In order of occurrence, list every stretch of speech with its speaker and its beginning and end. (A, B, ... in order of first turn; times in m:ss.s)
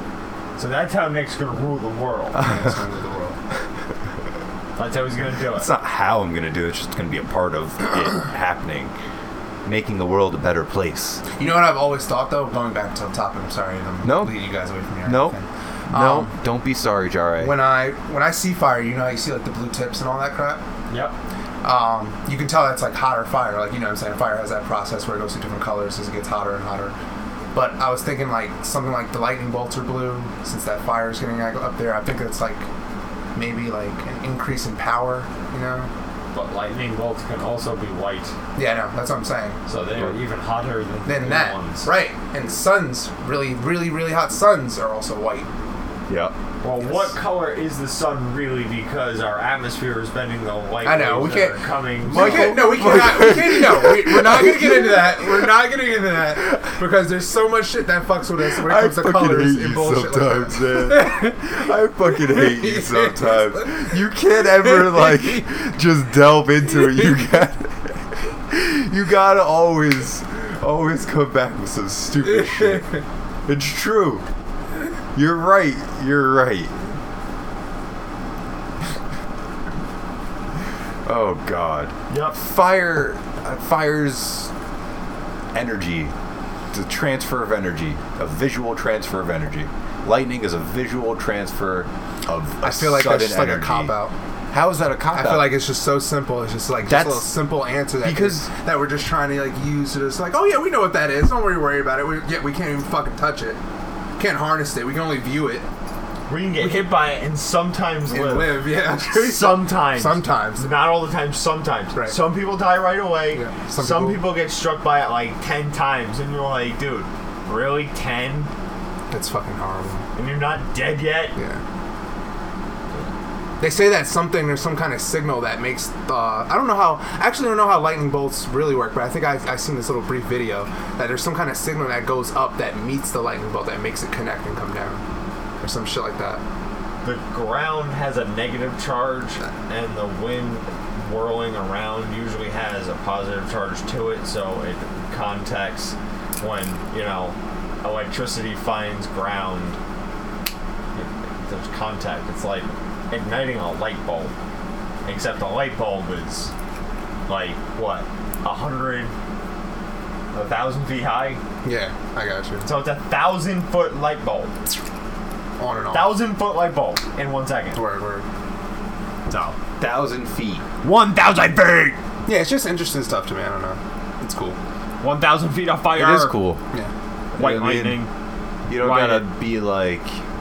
0:00.6-0:02.4 A
0:02.4-0:02.7 B
0:02.4-0:03.4 C
0:04.8-0:05.7 A
0:05.5-0:08.9 B
0:09.6-0:11.2 B
0:11.4-0:16.3 C
0:14.0-0:14.3 B
0:15.0-0:15.4 B
0:15.9-0:17.6 B
0:17.4-0:20.6 C
0:20.9-0:21.2 A
0:21.6-0:27.0 C
0:27.5-0:32.7 C
0:33.4-0:35.9 C
0:36.3-0:38.4 A
0:38.6-0:39.6 C
0:39.7-0:41.9 A
0:41.1-0:45.5 C
0:46.1-0:46.4 B
0:46.6-0:52.6 A
0:46.8-0:47.1 C
0:50.8-1:01.5 C
0:52.0-0:55.5 B
0:58.6-1:12.9 B
1:02.2-1:03.7 C
1:04.7-1:05.4 C
1:13.5-1:14.2 B
1:15.1-1:17.0 B
1:21.0-1:24.5 B
1:22.1-1:22.4 A
1:25.5-1:26.1 B
1:26.7-1:33.9 B
1:32.6-1:34.1 C
1:34.5-1:35.6 B
1:35.1-1:43.6 C
1:36.9-1:37.3 B
1:38.0-1:38.5 B
1:44.2-1:45.7 C
1:46.3-1:58.5 A
1:46.6-1:46.9 C
1:48.1-1:50.8 C
1:53.3-1:54.2 C
1:59.1-2:00.1 C
2:00.2-2:01.4 A
2:01.4-2:01.6 C
2:03.6-2:15.0 C
2:15.6-2:16.4 C
2:17.0-2:29.8 A
2:31.0-2:34.3 A
2:35.0-2:36.5 A
2:37.3-2:39.1 A
2:40.3-2:41.4 A
2:41.6-2:42.7 C
2:42.6-2:44.6 A
2:45.6-2:46.2 C
2:45.9-2:47.8 A
2:47.8-2:48.3 C
2:49.3-2:49.6 A
2:49.8-2:50.6 B
2:50.8-2:52.0 A
2:52.3-2:54.6 C
2:55.0-2:56.4 A
2:55.9-2:56.6 B
2:57.3-2:58.0 B
2:57.4-2:58.1 A
2:58.7-3:00.2 B
2:58.8-2:59.3 A